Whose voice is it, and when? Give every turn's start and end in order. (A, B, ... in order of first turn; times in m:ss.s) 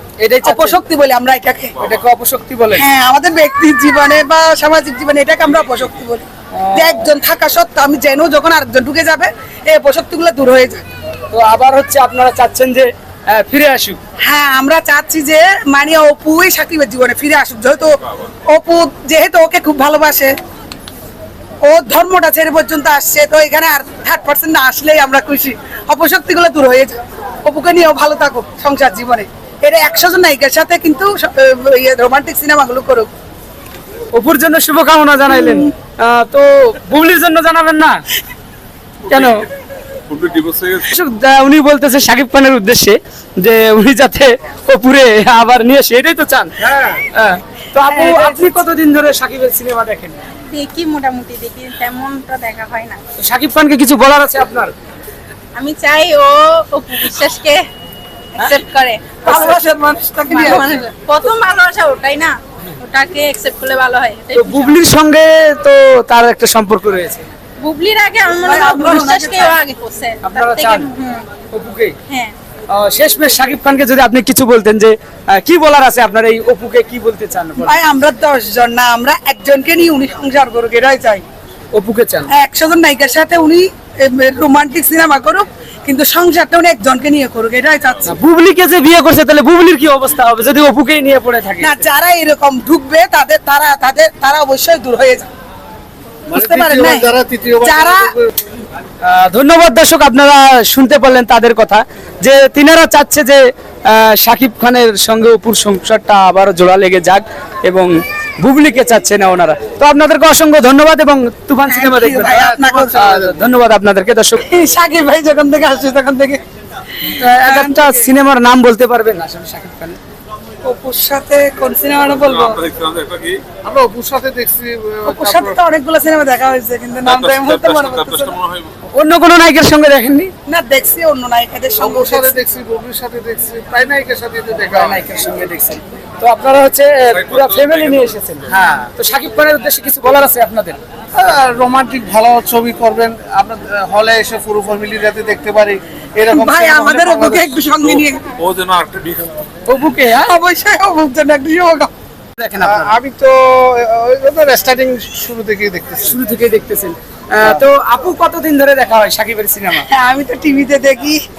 0:00.2-0:00.8 A
0:00.4-0:01.9 B
0:01.8-0:02.8 A
0:02.7-0:10.8 B
0:06.5-0:07.0 A
0:11.3-0:14.0 A
0:14.2-0:17.9 B
0:18.5-0:20.3 B
0:21.6-0:33.1 B
0:34.1-0:38.0 A
0:39.1-0:39.5 A
0:40.1-0:40.9 C
0:40.8-0:50.2 A
0:47.8-0:48.5 B
0:50.5-0:53.0 D
0:53.2-0:54.7 A
0:55.5-0:57.6 D
0:58.4-0:59.5 D
0:59.2-1:00.8 B
0:59.3-0:59.6 A
1:00.3-1:04.8 D
1:04.3-1:07.2 A
1:07.6-1:11.2 D
1:08.4-1:09.6 B
1:10.2-1:10.9 A
1:11.5-1:12.0 A
1:12.1-1:12.3 D
1:12.7-1:17.8 A
1:17.6-1:21.2 B
1:21.7-1:22.3 A
1:22.3-1:28.2 B
1:28.1-1:31.8 A
1:31.6-1:35.3 B
1:36.3-1:38.1 B
1:36.3-1:38.3 E
1:39.0-1:54.4 A
1:51.7-1:53.1 B
1:52.7-1:53.4 E
1:54.4-1:56.4 B
1:57.0-1:58.1 B
1:57.1-2:00.0 A
2:00.6-2:02.7 B
2:02.5-2:03.4 C
2:03.6-2:05.6 E
2:05.0-2:08.4 B
2:07.1-2:08.7 C
2:08.9-2:10.3 A
2:10.4-2:12.4 B
2:11.8-2:15.0 E
2:14.6-2:20.8 A
2:17.2-2:18.0 C
2:21.1-2:27.5 E
2:26.2-2:28.3 B
2:27.9-2:29.4 C
2:29.7-2:30.3 A
2:30.0-2:31.9 B
2:32.4-2:32.9 A
2:32.6-2:36.2 E
2:36.0-2:39.8 A
2:39.7-2:41.2 B